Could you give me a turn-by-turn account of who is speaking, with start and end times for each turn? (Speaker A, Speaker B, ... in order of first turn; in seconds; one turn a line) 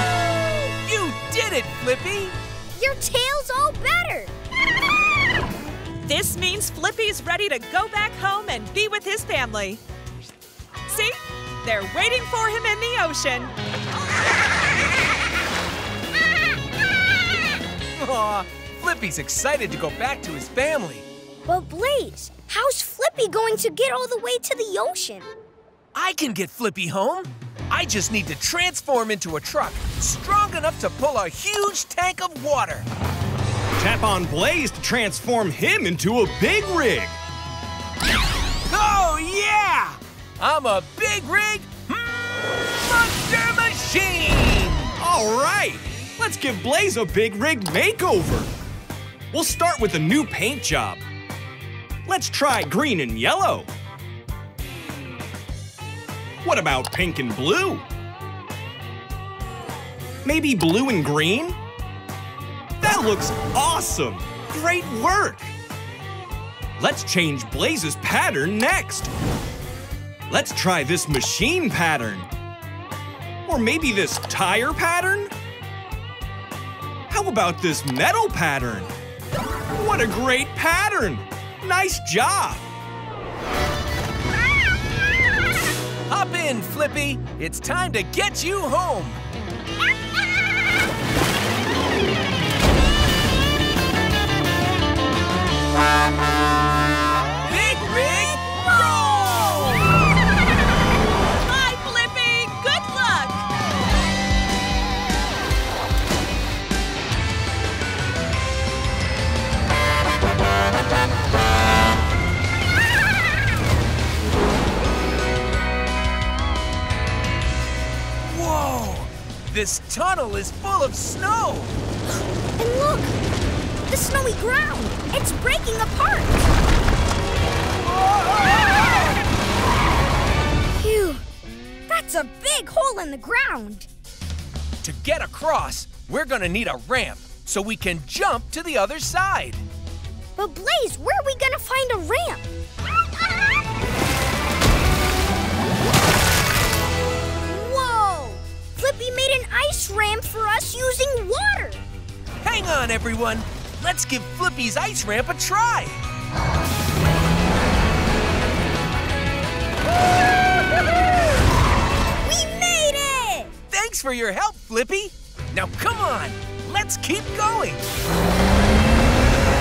Speaker A: 0.8-2.4
Speaker B: 2.8-4.3
Speaker C: 6.0-9.8
Speaker C: 10.9-13.5
Speaker A: 18.0-21.1
Speaker B: 21.4-25.3
Speaker A: 25.9-32.9
Speaker D: 33.8-37.2
Speaker A: 38.7-44.9
Speaker D: 45.0-48.5
Speaker D: 49.3-51.0
Speaker D: 52.0-53.7
Speaker D: 56.4-57.8
Speaker D: 60.2-61.6
Speaker D: 62.8-65.5
Speaker D: 66.8-69.1
Speaker D: 70.3-72.3
Speaker D: 73.5-75.3
Speaker D: 77.1-78.9
Speaker D: 79.7-82.6
Speaker A: 86.1-89.2
Speaker A: 97.4-98.6
Speaker C: 98.5-99.2
Speaker A: 99.1-99.7
Speaker C: 101.4-103.5
Speaker A: 118.3-121.8
Speaker B: 122.6-123.2
Speaker B: 123.9-126.4
Speaker A: 128.1-128.8
Speaker B: 130.8-131.2
Speaker B: 131.9-133.9
Speaker A: 134.8-139.6
Speaker B: 140.3-142.4
Speaker B: 147.5-151.8
Speaker A: 152.4-156.0
Speaker B: 162.2-163.5
Speaker A: 163.7-167.8